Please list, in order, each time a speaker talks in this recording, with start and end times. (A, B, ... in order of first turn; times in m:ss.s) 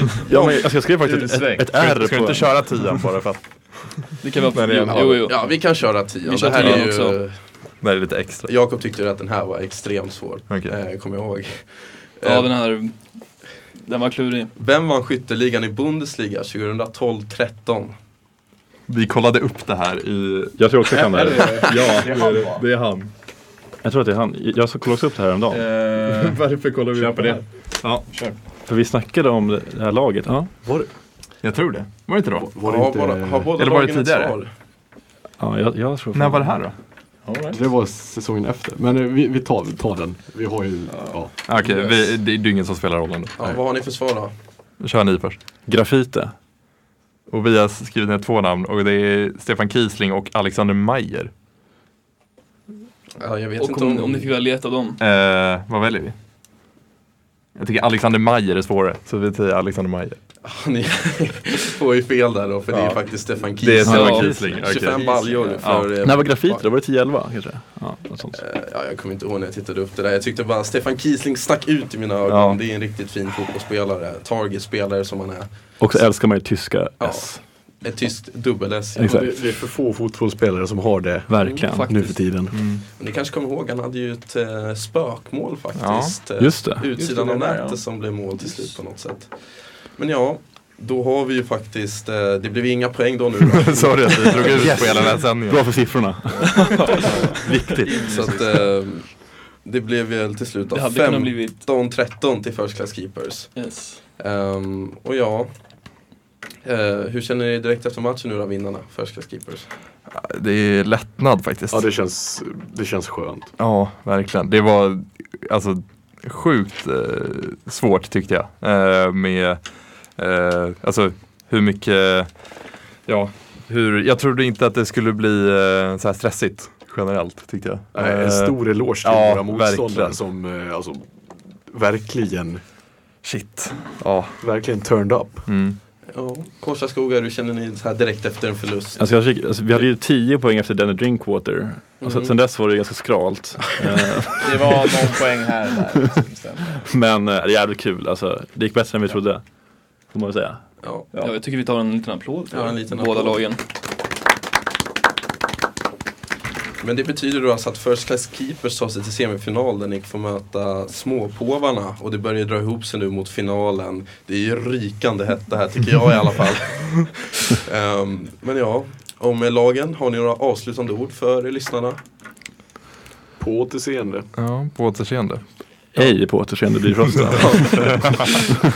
0:00.2-0:03.0 A
0:00.3-0:00.7 B
0:00.8-0:01.7 C
0:01.7-0:05.2 D
0:04.2-0:07.2 E
0:04.9-0:07.4 B
0:06.6-0:06.8 D
0:07.8-0:08.5 D
0:08.4-0:12.5 B
0:10.5-0:10.8 D
0:12.2-0:13.1 E
0:13.8-0:14.5 E
0:14.6-0:17.9 B
0:18.9-0:23.1 D
0:20.6-0:21.7 A
0:20.9-0:22.7 C
0:23.8-0:25.6 A
0:25.5-0:27.4 C
0:26.0-0:28.0 D
0:28.1-0:28.4 C
0:28.7-0:30.5 A
0:30.6-0:30.9 F
0:31.4-0:32.5 D
0:32.4-0:33.5 F
0:32.6-0:34.5 B
0:33.6-0:34.4 D
0:35.4-0:36.6 A
0:36.1-0:36.8 D
0:37.2-0:37.6 C
0:37.5-0:41.3 F
0:40.9-0:41.9 C
0:41.4-0:43.6 D
0:43.4-0:44.3 B
0:44.8-0:45.4 D
0:45.6-0:46.3 A
0:47.3-0:51.3 D
0:53.2-0:54.3 B
0:53.6-0:55.0 E
0:55.0-0:56.1 D
0:57.6-1:00.2 D
1:00.4-1:06.6 B
1:03.6-1:05.9 D
1:03.8-1:04.7 A
1:03.9-1:04.3 E
1:06.0-1:08.4 A
1:08.3-1:15.5 B
1:12.3-1:12.6 D
1:15.8-1:17.4 A
1:17.0-1:19.3 B
1:19.0-1:19.3 A
1:19.0-1:22.7 F
1:21.3-1:21.9 A
1:21.4-1:21.8 B
1:21.7-1:22.2 E
1:22.5-1:22.8 D
1:22.9-1:35.0 B
1:25.8-1:26.2 D
1:26.4-1:27.0 A
1:27.0-1:27.8 C
1:33.5-1:35.8 D
1:34.4-1:38.4 A
1:36.6-1:37.0 E
1:36.8-1:38.7 C
1:38.1-1:43.6 B
1:40.7-1:41.6 E
1:43.5-1:44.0 E
1:44.2-1:45.5 B
1:46.6-1:49.7 B
1:50.1-1:51.8 D
1:51.7-1:53.5 F
1:53.6-2:10.2 D
2:07.9-2:11.1 F
2:11.6-2:12.6 F
2:13.2-2:14.4 D
2:14.4-2:15.6 F
2:15.4-2:15.8 D
2:16.1-2:19.1 B
2:19.0-2:24.9 A
2:22.0-2:22.3 B
2:24.4-2:26.8 C
2:26.9-2:30.6 A
2:30.8-2:31.1 B
2:31.2-2:33.6 E
2:32.5-2:33.5 B
2:36.8-2:52.0 B
2:53.4-2:54.3 F
2:54.3-2:56.1 D
2:55.9-2:58.4 A
2:57.1-2:58.1 D